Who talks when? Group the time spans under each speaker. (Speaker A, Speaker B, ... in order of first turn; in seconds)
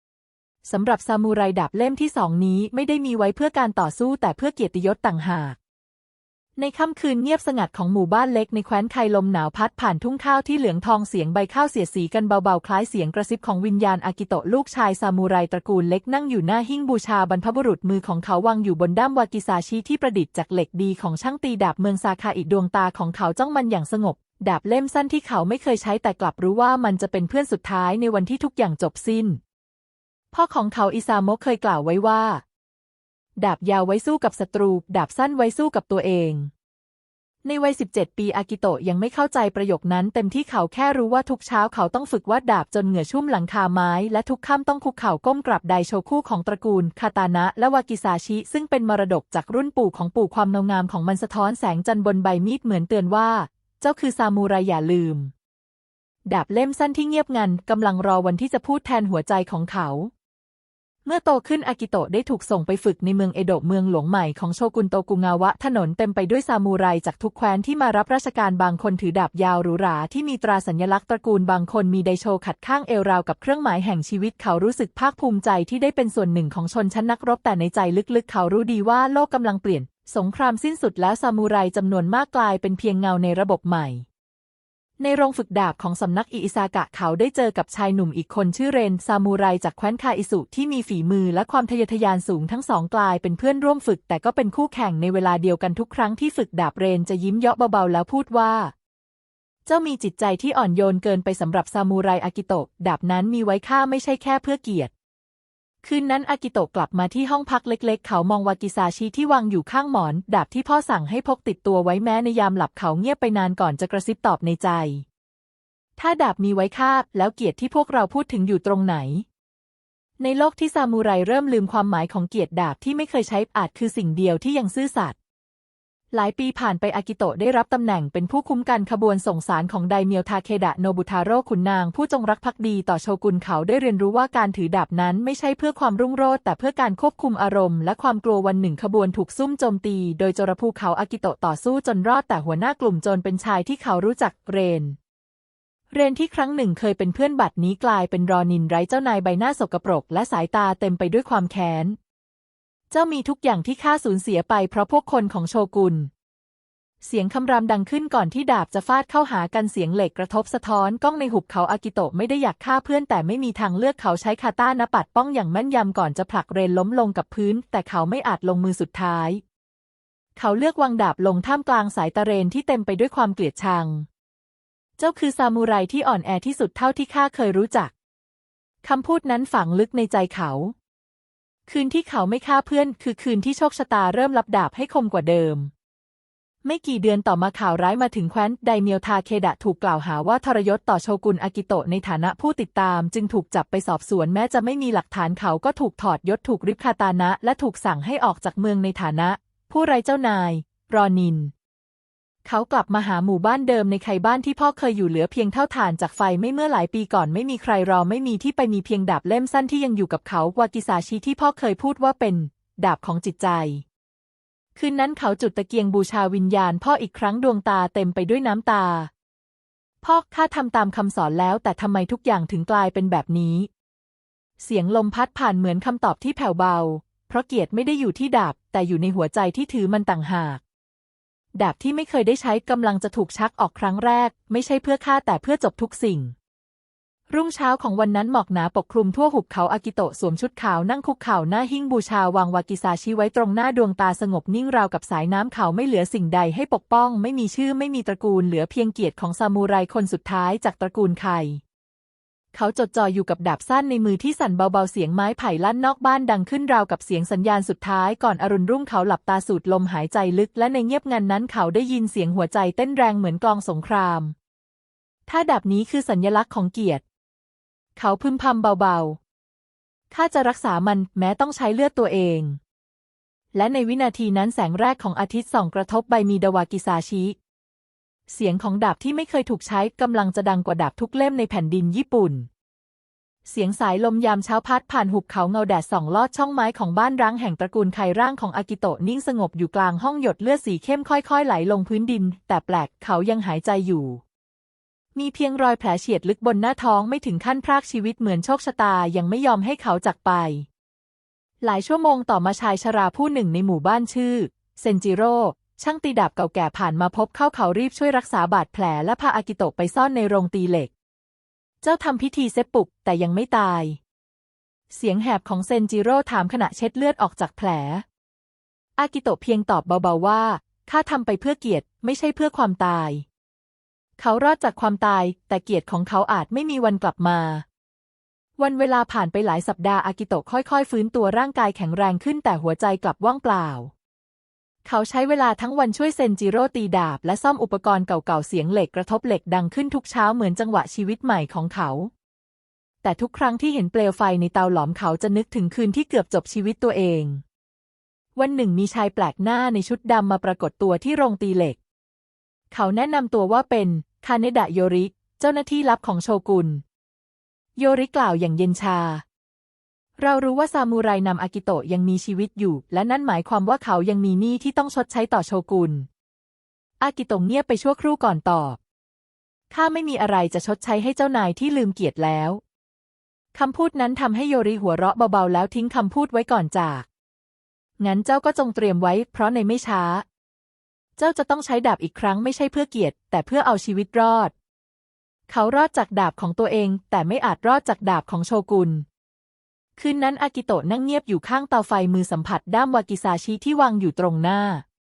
Speaker A: 0.7-5.6, 6.6-29.4, 30.3-32.4, 33.4-36.5, 37.4-55.3, 56.3-60.1, 61.0-84.0, 85.0-98.7, 99.7-104.9, 105.8-115.0, 116.0-119.2, 120.2-125.2, 126.1-145.0, 145.9-152.0, 152.9-156.1, 157.0-169.4, 170.4-174.1, 175.0-177.9, 178.8-180.7, 181.7-185.7, 186.6-201.5, 202.4-213.8, 214.8-219.1, 220.0-223.7, 224.6-230.6, 231.6-236.3, 237.3-251.6, 252.5-264.4, 265.3-267.0, 268.0-269.2, 270.1-272.6, 273.5-277.4, 278.3-282.5, 283.5-294.2, 295.1-300.7, 301.6-310.9, 311.8-314.0, 314.9-318.0, 319.0-323.2, 324.2-327.6, 328.6-333.9, 334.9-342.1, 343.0-347.4, 348.4-351.8, 352.7-356.8, 357.8-359.2, 360.2-366.1, 367.0-368.8, 369.7-372.6, 373.5-377.1, 378.0-380.2, 381.2-384.5, 385.5-389.1, 390.0-394.8